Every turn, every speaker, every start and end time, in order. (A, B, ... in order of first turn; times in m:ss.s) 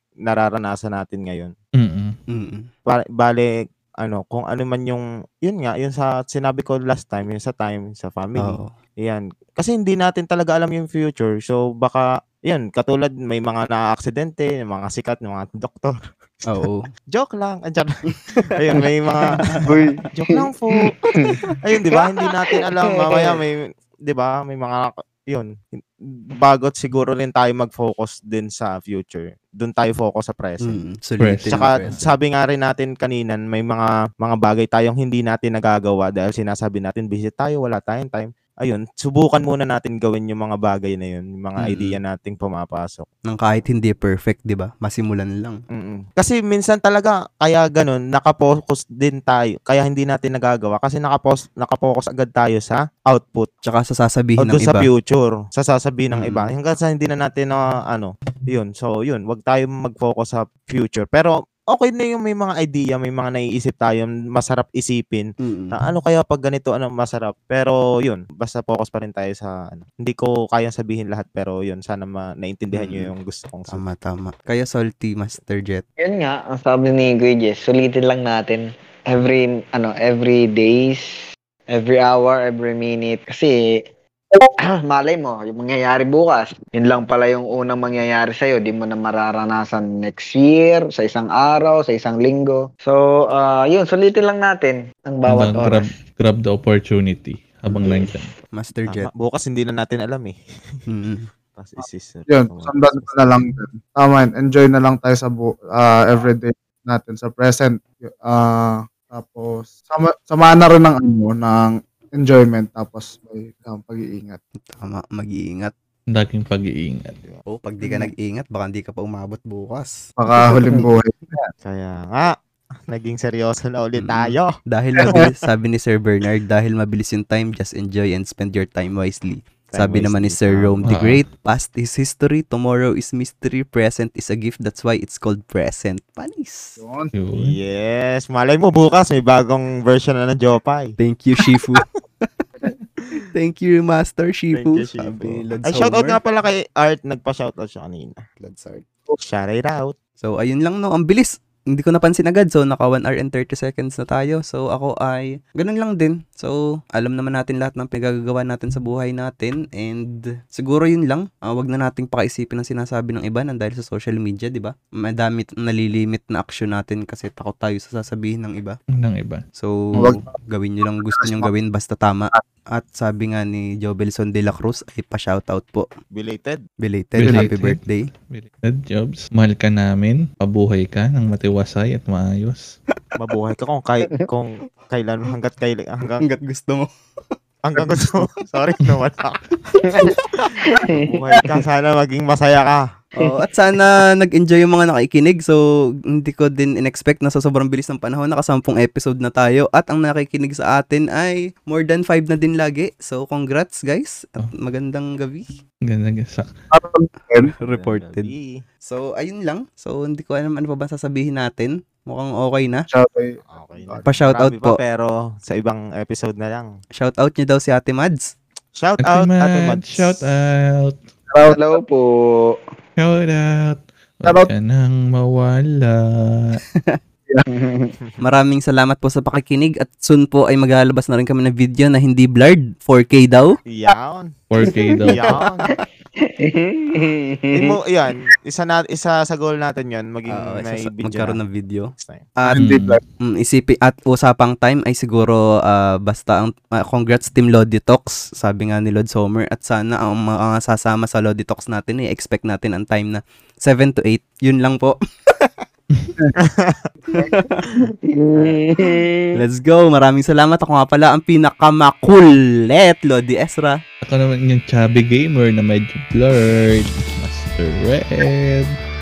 0:00.2-0:01.5 A
0:01.8-0:02.1 B
0:02.3-0:02.7 C
0:02.8-0:16.0 A
0:08.4-0:08.7 C
0:16.5-0:16.9 C
0:17.1-0:21.0 A
0:18.5-0:18.8 C
0:19.3-0:19.8 C
0:19.6-0:20.4 D
0:21.1-0:21.4 D
0:21.2-0:21.6 C
0:21.6-0:30.8 A
0:22.0-0:23.4 D
0:30.6-0:32.0 C
0:31.2-0:32.0 B
0:31.5-0:43.1 A
0:41.6-0:42.0 C
0:43.3-0:45.6 C
0:45.7-0:53.5 A
0:53.6-0:54.9 C
0:54.4-1:13.8 A
0:56.1-0:56.5 C
1:05.4-1:05.8 C
1:12.7-1:13.1 C
1:13.7-1:15.8 C
1:16.0-1:23.8 D
1:24.6-1:35.9 D
1:35.3-1:38.3 B
1:38.5-1:39.1 C
1:38.9-1:40.8 A
1:40.9-1:41.3 C
1:41.6-1:43.1 A
1:42.3-1:54.4 E
1:54.6-1:55.7 C
1:56.1-1:57.2 B
1:57.4-2:00.0 C
2:00.2-2:01.5 E
2:01.6-2:02.4 A
2:02.9-2:05.4 A
2:04.0-2:16.8 C
2:09.7-2:10.9 A
2:10.9-2:11.2 B
2:16.8-2:17.1 E
2:17.1-2:17.6 B
2:17.4-2:21.0 A
2:21.0-2:22.3 C
2:23.3-2:26.2 C
2:24.5-2:28.2 A
2:28.4-2:28.9 C
2:29.1-2:29.9 A
2:30.2-2:48.8 C
2:48.9-2:49.4 B
2:49.6-2:55.8 C
2:49.9-2:50.3 E
2:51.1-2:51.5 E
2:56.1-2:56.6 A
2:56.8-2:58.1 C
2:57.2-3:02.7 B
3:03.2-3:06.2 A
3:06.2-3:06.9 C
3:07.6-3:09.4 A
3:09.8-3:11.4 D
3:11.0-3:12.8 A
3:13.1-3:25.5 C
3:25.8-3:26.5 B
3:26.7-3:27.5 E
3:27.4-3:28.3 C
3:27.6-3:28.6 A
3:28.8-3:32.8 C
3:32.9-3:34.1 E
3:33.5-3:36.7 A
3:34.0-3:34.8 C
3:37.0-3:38.3 C
3:38.8-3:40.3 A
3:39.0-3:41.0 B
3:41.3-3:41.8 E
3:41.5-3:42.6 D
3:43.0-3:46.6 B
3:47.5-3:47.9 D
3:48.2-3:53.6 C
3:53.7-3:54.3 A
3:54.5-3:55.3 B
3:54.7-3:54.9 D
3:55.0-3:55.7 A
3:55.3-3:55.7 C
3:56.2-3:57.7 D
3:57.5-4:01.4 A
4:00.3-4:02.6 C
4:02.0-4:02.3 A
4:02.4-4:03.0 E
4:02.6-4:03.0 B
4:03.2-4:15.5 C
4:16.4-4:16.9 A
4:17.1-4:17.6 C
4:18.1-4:19.3 D
4:19.3-4:23.8 C
4:24.0-4:28.7 B